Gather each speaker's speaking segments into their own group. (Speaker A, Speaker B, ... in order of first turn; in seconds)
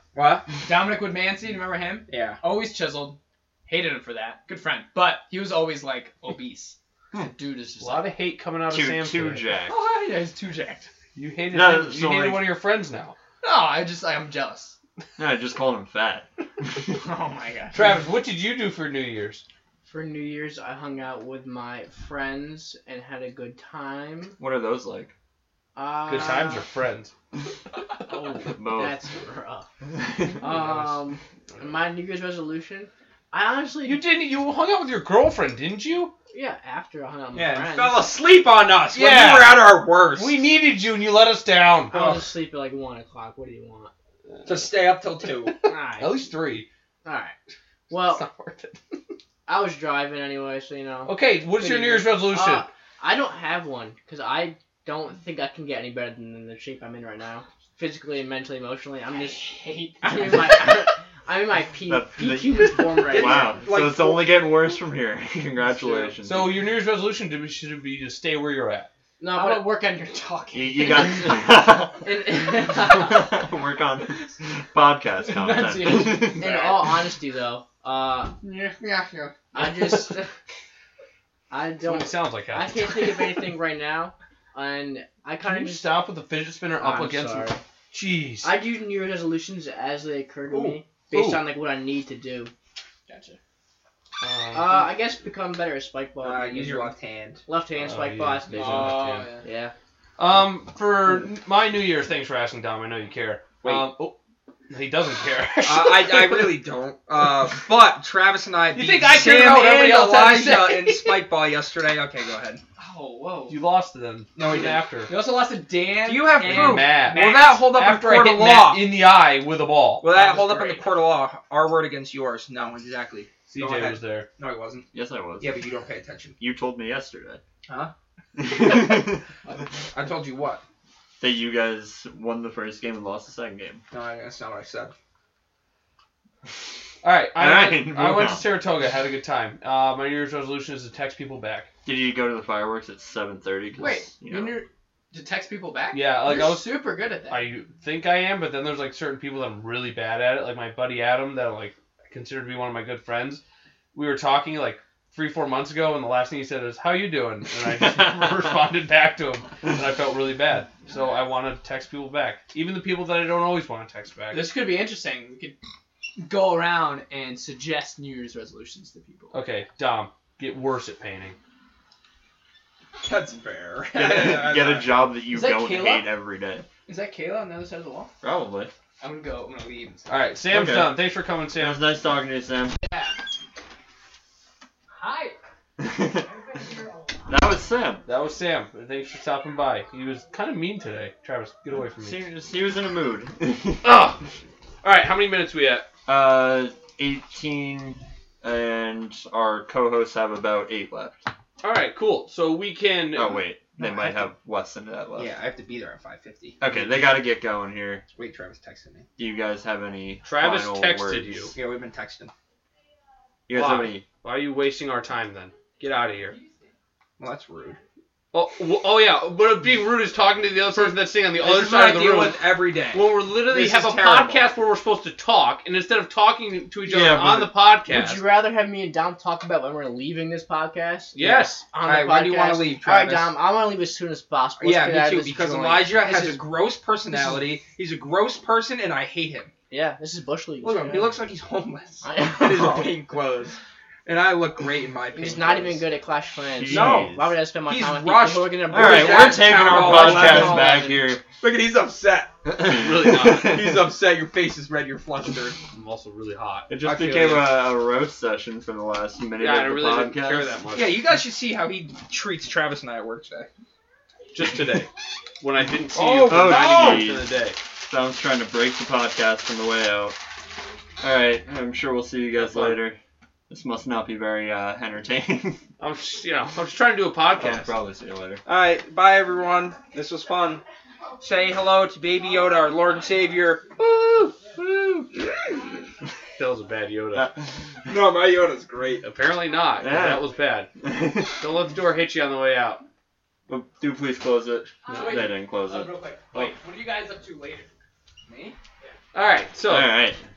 Speaker A: 0.1-0.5, 2.1-2.4, 37.3-40.4, 44.4-45.6, 63.1-64.4, 96.2-97.4, 103.6-103.9, 105.6-112.6, 114.3-114.9, 116.0-118.9, 120.0-126.3, 127.7-127.9, 129.9-130.6, 133.9-134.9, 173.0-175.0, 205.2-207.0, 208.1-209.1, 211.5-212.3, 217.2-217.8, 220.8-224.5, 231.8-233.3, 234.6-239.5, 240.6-245.8, 246.7-252.3, 253.1-255.6, 256.8-257.6, 260.7-263.5, 265.9-267.1, 278.4-280.6, 281.2-283.7, 287.9-289.0, 298.3-298.5
Speaker B: 0.6-8.1, 9.7-10.9, 13.4-14.8, 16.9-18.0, 59.1-60.6, 69.3-71.5, 75.2-76.9, 78.4-79.5, 93.1-93.4, 98.5-99.5, 112.8-113.6, 115.1-117.6, 120.1-120.9, 143.8-147.5, 164.3-165.6, 166.2-169.3, 175.3-176.1, 176.9-178.1, 179.0-180.1, 182.8-183.2, 184.9-185.4, 203.8-204.1, 294.9-297.7
Speaker C: 7.8-9.4, 11.1-13.2, 17.7-19.4, 26.1-27.1, 30.5-30.9, 33.8-36.1, 38.9-42.2, 44.4-44.7, 45.5-46.7, 48.1-48.8, 51.0-52.7, 66.2-68.9, 79.6-80.1, 81.8-83.4, 85.4-88.5, 90.6-91.4, 94.2-94.9, 97.8-99.3, 100.2-104.2, 104.7-106.6, 108.8-111.2, 113.5-115.1, 116.4-120.0, 123.5-124.3, 137.0-141.7, 145.9-153.4, 153.9-164.5, 169.3-171.3, 180.1-181.8, 188.1-192.2, 193.8-194.2, 194.8-195.9, 201.6-203.4, 210.2-211.5, 213.5-216.4, 218.3-228.2, 231.1-231.6, 252.6-253.6, 255.7-256.7, 259.4-261.0, 264.3-267.6, 272.4-272.8, 275.8-277.7, 286.4-287.3, 289.0-290.7, 291.3-292.8, 294.9-295.2, 299.1-300.0
Speaker D: 8.7-9.8, 11.5-12.5, 15.2-16.8, 24.4-25.1, 28.5-29.0, 30.0-30.4, 61.9-66.7, 70.5-76.4, 124.9-125.5, 126.4-127.4, 128.3-129.2, 131.2-133.8, 137.4-138.5, 141.8-144.6, 157.8-158.5, 173.9-176.7, 178.2-178.7, 180.5-182.8, 185.8-186.3, 187.3-188.0, 191.7-194.0, 196.1-201.2, 203.1-205.3, 206.6-208.0, 209.2-211.5, 213.5-214.0, 226.8-227.5, 246.5-247.4, 248.7-251.2, 252.5-253.9, 256.7-260.6, 266.3-270.2, 271.0-273.0, 273.5-275.6, 277.3-278.4, 283.8-285.1, 287.1-287.9, 289.8-291.4, 293.5-296.5, 299.7-300.2
Speaker E: 19.8-24.4, 25.8-26.6, 28.1-29.7, 30.4-34.0, 36.3-38.1, 41.9-43.9, 45.6-46.3, 47.0-47.3, 47.9-48.2, 49.5-63.6, 69.2-69.9, 72.0-73.4, 76.4-78.4, 79.5-80.3, 81.5-85.9, 86.8-87.6, 88.4-92.5, 94.5-96.9, 97.5-99.7, 227.9-236.0, 239.7-241.2, 242.0-242.9, 245.2-251.0